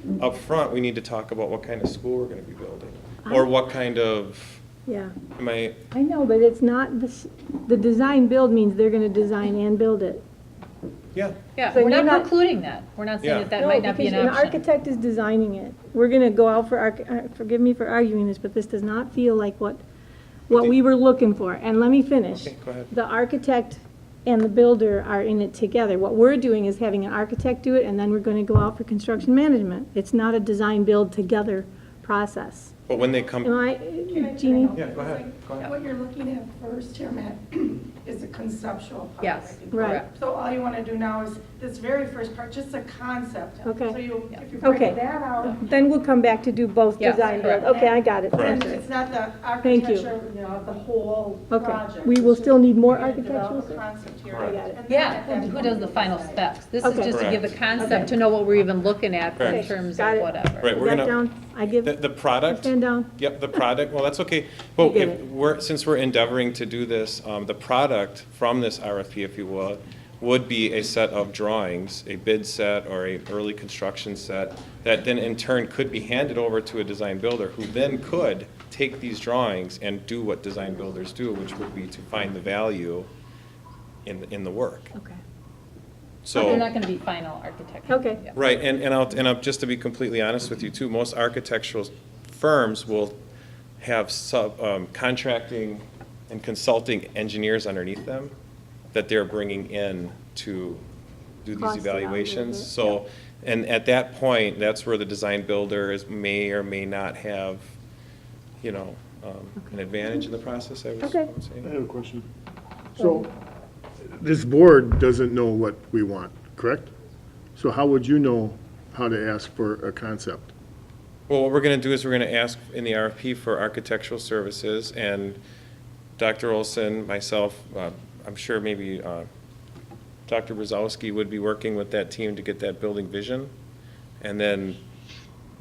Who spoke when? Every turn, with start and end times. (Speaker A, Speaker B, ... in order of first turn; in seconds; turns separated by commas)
Speaker A: 0.2-4.6, Speaker B: 4.8-5.1, Speaker A: 5.4-5.8, Speaker B: 5.9-10.2, Speaker C: 11.6-14.6, Speaker B: 11.7-12.3, Speaker A: 13.2-13.5, Speaker B: 13.6-19.8, Speaker B: 20.5-32.7, Speaker A: 22.3-22.9, Speaker A: 32.9-33.6, Speaker B: 33.4-34.7, Speaker D: 34.1-45.6, Speaker A: 34.7-35.7, Speaker C: 39.2-40.1, Speaker B: 39.7-40.0, Speaker B: 43.6-44.0, Speaker B: 44.6-48.9, Speaker C: 47.0-47.7, Speaker D: 47.1-56.4, Speaker A: 48.3-48.6, Speaker B: 49.6-50.1, Speaker B: 51.5-53.8, Speaker A: 54.3-54.6, Speaker B: 54.4-54.8, Speaker C: 54.9-60.8, Speaker B: 55.3-55.7, Speaker B: 56.8-57.1, Speaker A: 57.1-57.5, Speaker B: 57.8-58.1, Speaker A: 59.4-59.7, Speaker B: 59.4-63.1, Speaker A: 60.6-61.2, Speaker A: 61.8-83.1, Speaker B: 64.8-65.2, Speaker A: 84.0-84.9, Speaker A: 86.2-86.7, Speaker C: 86.3-88.3, Speaker B: 87.9-88.2, Speaker A: 88.3-93.2, Speaker A: 93.8-98.3, Speaker A: 98.9-100.8, Speaker A: 101.4-107.7, Speaker B: 101.6-103.0, Speaker A: 108.6-111.7, Speaker B: 111.0-111.3, Speaker E: 111.6-112.2, Speaker E: 113.0-113.3, Speaker E: 114.0-116.9, Speaker E: 117.5-120.5, Speaker A: 121.3-125.4, Speaker A: 126.2-129.3, Speaker A: 130.3-133.5, Speaker A: 134.2-134.8